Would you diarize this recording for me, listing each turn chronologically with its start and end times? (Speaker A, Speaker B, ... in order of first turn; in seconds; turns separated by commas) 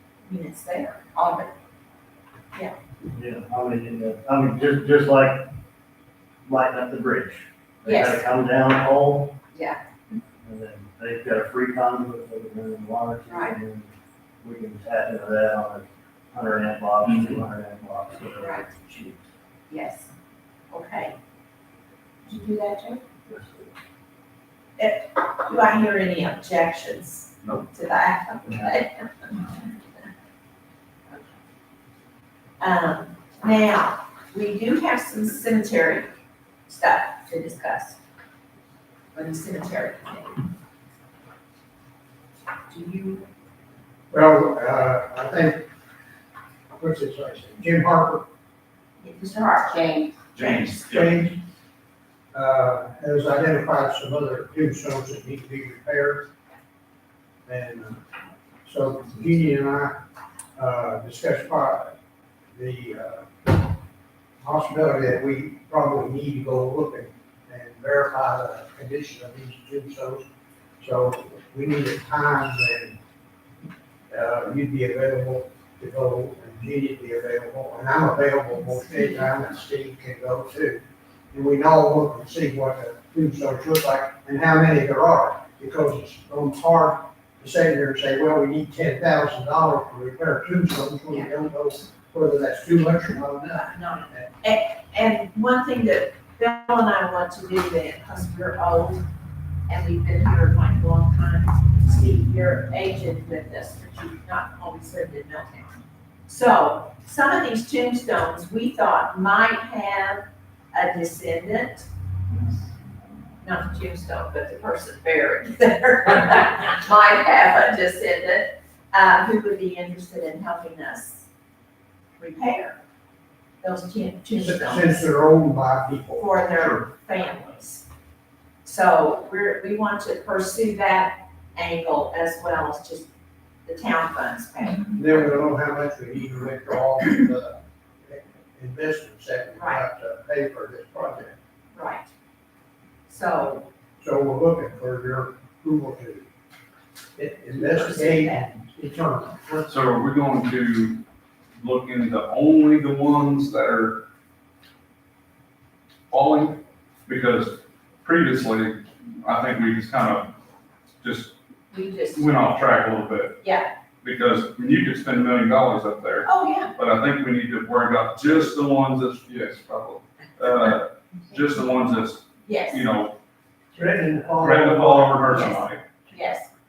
Speaker A: 0.2-1.5, Speaker B: 3.1-5.5, Speaker B: 6.4-9.4, Speaker A: 7.8-8.2, Speaker A: 9.5-10.2, Speaker B: 10.4-19.2, Speaker A: 13.3-13.6, Speaker C: 17.1-17.4, Speaker A: 18.4-18.7, Speaker A: 19.7-20.1, Speaker A: 20.7-21.2, Speaker A: 22.2-23.1, Speaker A: 24.8-29.7, Speaker A: 31.1-31.3, Speaker A: 32.6-36.1, Speaker A: 36.7-38.0, Speaker A: 39.1-40.5, Speaker A: 42.7-43.3, Speaker D: 44.1-45.7, Speaker D: 46.8-48.3, Speaker A: 49.0-50.6, Speaker C: 50.3-51.2, Speaker D: 50.8-51.4, Speaker D: 52.3-56.3, Speaker D: 57.5-58.0, Speaker D: 58.6-60.0, Speaker D: 60.5-62.0, Speaker D: 62.5-63.7, Speaker D: 64.4-70.2, Speaker D: 70.8-73.0, Speaker D: 74.1-94.3, Speaker A: 78.6-79.3, Speaker A: 93.5-99.0, Speaker A: 99.7-111.9, Speaker A: 113.4-121.2, Speaker A: 122.2-122.8, Speaker A: 123.6-125.1, Speaker D: 124.4-126.2, Speaker A: 126.2-127.8, Speaker A: 128.7-133.1, Speaker A: 133.7-134.9, Speaker D: 134.9-141.4, Speaker A: 139.6-139.8, Speaker A: 141.7-142.1, Speaker A: 143.1-143.7, Speaker D: 144.0-146.3, Speaker D: 147.2-149.7, Speaker A: 147.5-148.5, Speaker C: 149.7-151.0, Speaker C: 151.6-154.0, Speaker C: 156.1-160.3, Speaker C: 161.0-161.3, Speaker A: 161.7-162.3, Speaker C: 162.2-163.4, Speaker A: 163.4-163.7, Speaker C: 164.0-173.2, Speaker A: 166.2-166.7, Speaker A: 172.4-172.9, Speaker D: 173.7-175.4, Speaker C: 174.4-175.8, Speaker A: 175.2-176.5